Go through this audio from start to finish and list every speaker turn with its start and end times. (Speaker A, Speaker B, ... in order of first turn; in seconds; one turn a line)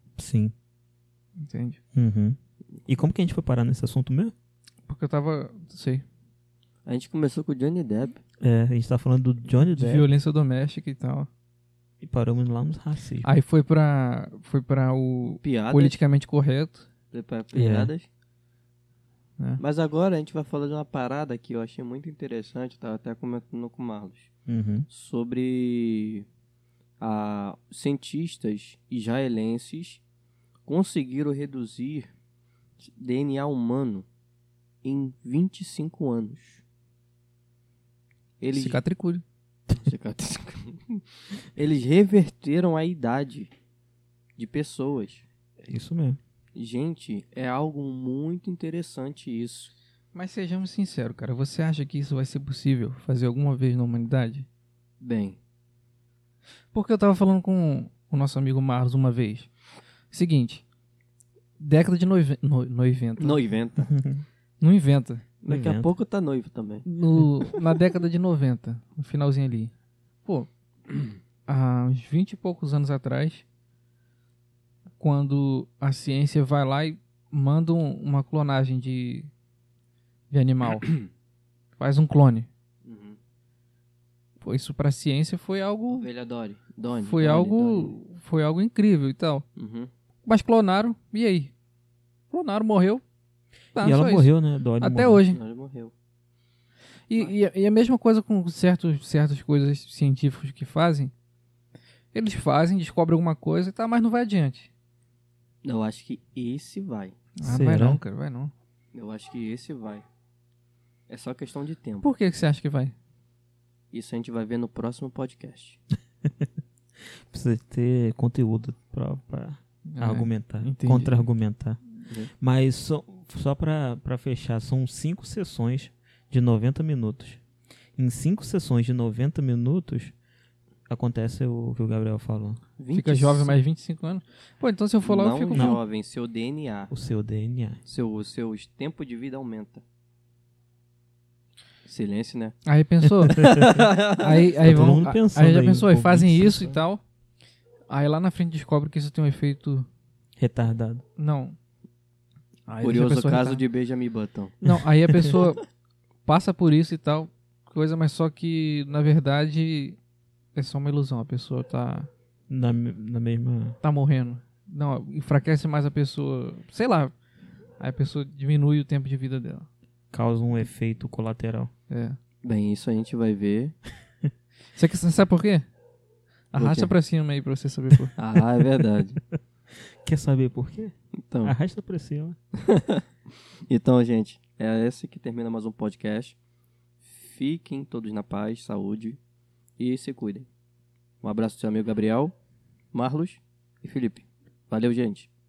Speaker A: 0.2-0.5
Speaker B: 1.4-1.8
Speaker A: 1.9-4.3
Speaker B: 4.9-6.0
Speaker C: 6.9-8.2
Speaker A: 8.4-10.1
Speaker B: 9.7-11.3
Speaker A: 12.0-13.3
Speaker B: 13.2-16.9
Speaker C: 15.4-16.0
Speaker C: 17.1-18.1
Speaker A: 17.5-17.9
Speaker C: 19.6-24.3
Speaker A: 24.5-24.9
Speaker C: 24.9-26.3
Speaker C: 27.0-30.0
Speaker C: 30.7-32.1
Speaker C: 32.8-34.1
Speaker C: 34.8-36.6
Speaker C: 38.4-38.8
Speaker B: 38.5-39.2
Speaker C: 39.8-41.0
Speaker C: 41.5-43.5
Speaker C: 44.4-45.2
Speaker A: 45.6-46.2
Speaker C: 46.5-49.7
Speaker B: 50.1-54.5
Speaker C: 55.0-55.4
Speaker B: 56.7-59.5
Speaker B: 60.1-60.6
Speaker B: 61.6-63.4
Speaker C: 63.2-63.9
Speaker A: 63.8-64.2
Speaker B: 64.6-65.3
Speaker C: 65.4-66.9
Speaker A: 65.5-65.9
Speaker B: 66.8-69.7
Speaker B: 71.5-73.4
Speaker B: 75.0-79.3
Speaker B: 80.3-80.9
Speaker B: 81.8-82.5
Speaker C: 82.8-83.2
Speaker B: 84.4-86.1
Speaker C: 85.9-88.0
Speaker B: 87.0-89.5
Speaker C: 89.6-89.9
Speaker B: 90.3-91.5
Speaker B: 92.3-93.0
Speaker B: 93.8-95.4
Speaker A: 93.8-95.2
Speaker C: 95.3-95.9
Speaker B: 97.1-101.1
Speaker B: 102.1-104.7
Speaker C: 105.6-107.2
Speaker B: 107.4-108.5
Speaker A: 107.4-108.0
Speaker C: 108.9-110.0
Speaker C: 111.1-112.1
Speaker B: 112.0-112.9
Speaker C: 113.9-115.8
Speaker A: 116.2-116.5
Speaker A: 117.3-121.8
Speaker B: 119.9-121.2
Speaker A: 122.4-127.4
Speaker A: 128.0-130.2
Speaker A: 130.9-132.6
Speaker C: 132.8-133.6
Speaker B: 132.9-135.8
Speaker C: 135.0-136.9
Speaker A: 135.5-135.8
Speaker A: 136.9-137.8
Speaker C: 137.9-139.8
Speaker C: 141.8-142.6
Speaker B: 142.7-147.0
Speaker A: 143.2-143.8
Speaker C: 143.3-144.9
Speaker A: 144.6-146.8
Speaker B: 147.9-149.9
Speaker A: 150.4-151.0
Speaker B: 151.2-151.6
Speaker B: 152.7-153.6
Speaker C: 152.8-154.6
Speaker B: 154.6-155.6
Speaker A: 154.7-155.3
Speaker B: 156.3-160.0
Speaker B: 160.6-162.1
Speaker A: 162.5-163.8
Speaker B: 163.8-167.1
Speaker B: 167.8-169.7
Speaker A: 170.1-171.7
Speaker B: 171.9-172.2
Speaker C: 172.4-173.8
Speaker B: 174.8-175.7
Speaker B: 176.5-178.1
Speaker C: 176.6-176.9
Speaker C: 178.2-179.2
Speaker A: 178.4-178.7
Speaker A: 179.3-182.4
Speaker C: 181.3-181.6
Speaker C: 182.6-183.0
Speaker C: 183.7-186.4
Speaker C: 187.0-189.2
Speaker C: 189.8-190.5
Speaker C: 191.2-192.3
Speaker C: 192.9-195.3